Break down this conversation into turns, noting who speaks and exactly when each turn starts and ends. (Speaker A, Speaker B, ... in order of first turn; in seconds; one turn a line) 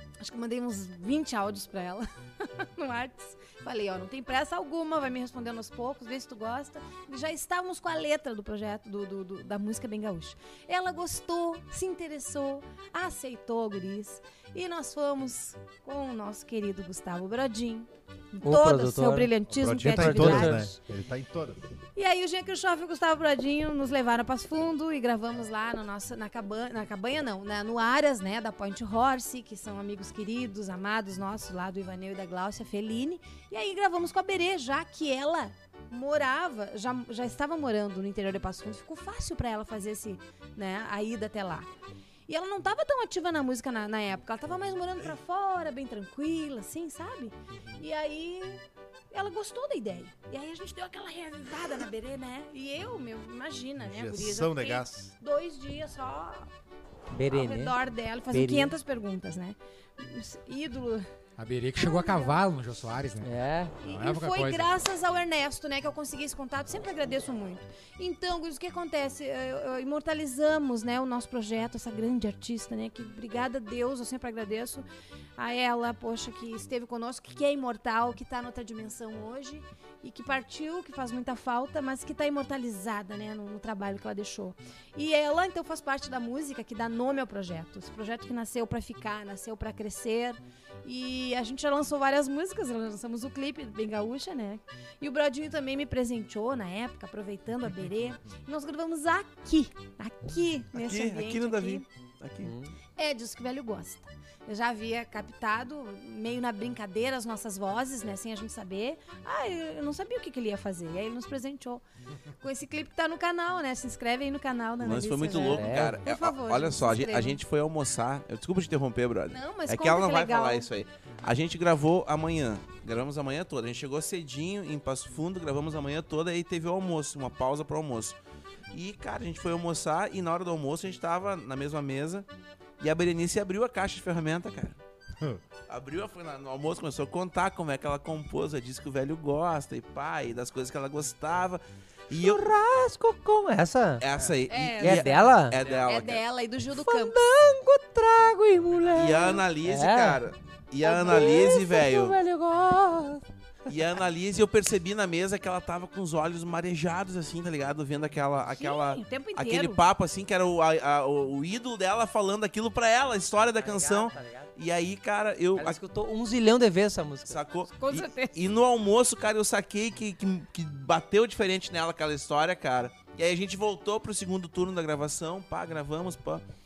Speaker A: 0.2-20.8
Speaker B: 18.4-19.3
Speaker C: 19.5-21.6
Speaker B: 19.9-20.7
Speaker A: 21.9-41.7
Speaker A: 42.3-56.5
Speaker B: 47.5-47.8
Speaker C: 53.8-55.1
Speaker B: 57.1-57.8
Speaker A: 57.3-61.1
Speaker B: 58.3-58.7
Speaker D: 61.4-64.7
Speaker A: 61.8-62.4
Speaker B: 63.2-63.8
Speaker A: 63.8-74.9
Speaker A: 75.4-101.8
Speaker E: 100.7-102.5
Speaker B: 102.4-102.7
Speaker A: 103.0-111.8
Speaker A: 112.4-117.4
Speaker E: 114.8-128.2
Speaker B: 115.4-116.0
Speaker A: 119.3-120.7
Speaker E: 128.7-132.3
Speaker E: 132.8-134.8
Speaker E: 135.7-142.4
Speaker B: 142.1-144.0
Speaker E: 144.0-146.2
Speaker A: 144.5-145.3
Speaker B: 144.8-145.6
Speaker A: 145.8-147.2
Speaker B: 146.7-150.2
Speaker E: 148.9-152.2
Speaker B: 150.8-153.2
Speaker A: 151.1-151.5
Speaker E: 153.7-165.8
Speaker A: 158.6-159.8
Speaker B: 163.6-164.5
Speaker B: 165.6-167.4
Speaker E: 167.3-176.4
Speaker A: 167.8-168.3